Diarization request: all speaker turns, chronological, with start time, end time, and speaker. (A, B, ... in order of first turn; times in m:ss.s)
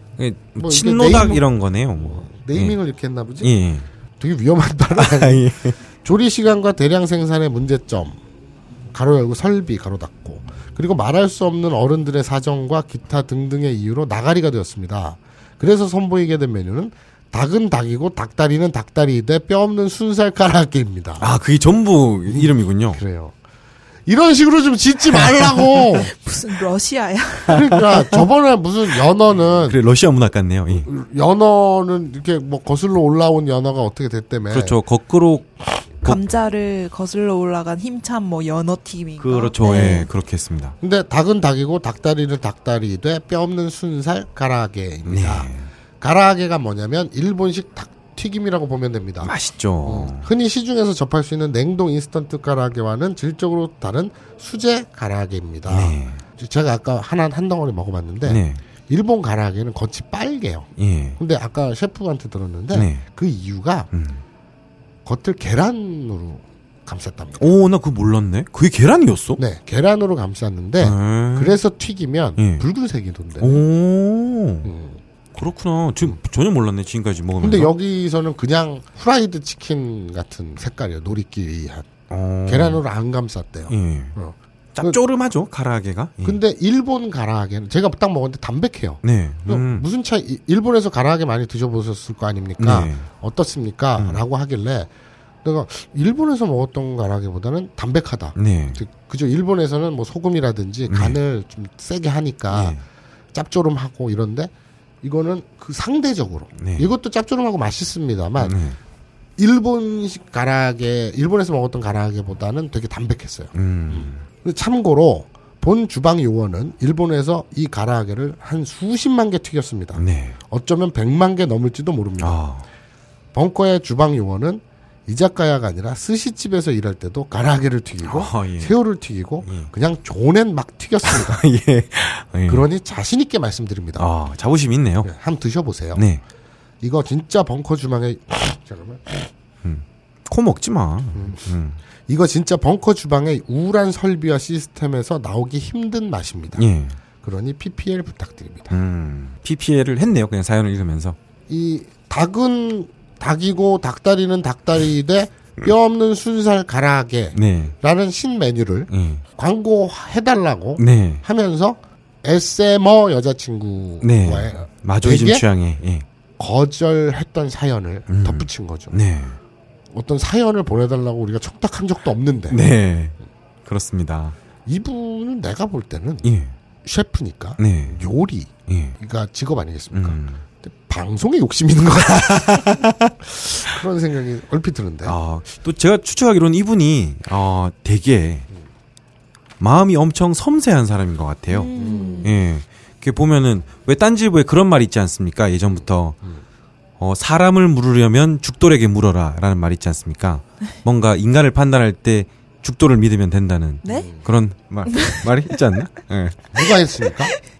0:00.2-0:02.8 A
0:00.6-0:01.4 B
0:02.0-0:03.5 B
0:03.4-0:03.9 A
0:04.2-0:08.2 B
0:04.9-0:05.8 A
0:08.9-0:21.3 B
0:21.2-0:23.0 A
0:22.3-0:23.3 B
0:24.0-0:26.1 B
0:26.0-0:27.6 C
0:27.5-0:29.8 B
0:27.5-0:28.1 A
0:29.6-0:30.9 A
0:30.8-0:34.8 B
0:34.5-0:35.5 A
0:36.0-0:40.1 C
0:39.2-0:40.8 A
0:40.8-1:03.9 B
0:45.1-0:45.7 A
0:49.2-0:50.3 A
0:55.7-0:56.2 A
0:58.2-0:58.6 A
1:00.8-1:01.2 A
1:02.7-1:03.0 A
1:03.9-1:04.2 A
1:05.0-1:07.5 B
1:07.4-1:09.4 A
1:09.4-1:13.6 B
1:10.8-1:11.6 A
1:12.4-1:12.6 A
1:13.4-1:14.7 A
1:14.6-1:15.0 B
1:15.3-1:17.7 A
1:17.4-1:21.9 B
1:22.1-1:22.8 A
1:22.4-1:25.0 B
1:23.7-1:24.1 A
1:24.7-1:26.4 A
1:26.2-1:34.9 B
1:29.0-1:29.8 A
1:32.6-1:33.1 A
1:34.0-1:34.2 A
1:35.4-1:42.8 B
1:38.4-1:38.8 A
1:40.9-1:41.2 A
1:42.5-1:42.8 A
1:43.3-1:48.6 B
1:46.6-1:46.9 A
1:48.4-1:48.8 A
1:49.4-2:02.4 B
1:53.5-1:54.2 A
1:59.9-2:00.4 A
2:02.2-2:02.6 A
2:03.3-2:11.4 B
2:08.0-2:08.7 A
2:09.4-2:09.7 A
2:11.0-2:12.6 A
2:12.5-2:14.1 B
2:14.0-2:15.1 A
2:15.0-2:16.0 B
2:15.9-2:16.2 A
2:16.8-2:19.3 B
2:19.6-2:21.8 A
2:21.1-2:21.5 B
2:22.1-2:26.7 B
2:26.6-2:27.0 A
2:27.2-2:28.8 B
2:28.7-2:31.2 A
2:31.5-2:45.5 B
2:37.3-2:37.7 A
2:38.9-2:39.2 A
2:40.8-2:41.2 A
2:44.0-2:46.0 A
2:46.4-2:49.0 B
2:48.1-2:49.4 A
2:49.9-2:52.6 B
2:52.5-2:54.4 A
2:54.6-2:56.3 B
2:56.2-2:56.5 A
2:56.8-3:02.9 B
2:57.6-2:58.1 A
2:58.7-2:59.0 A
2:59.9-3:00.4 A
3:02.0-3:03.2 A
3:03.4-3:05.2 B
3:05.0-3:08.5 A
3:09.6-3:16.2 A
3:11.5-3:12.3 C
3:11.7-3:12.3 B
3:17.0-3:26.4 A
3:23.8-3:24.1 C
3:23.9-3:24.2 B
3:24.9-3:25.6 C
3:26.5-3:27.3 B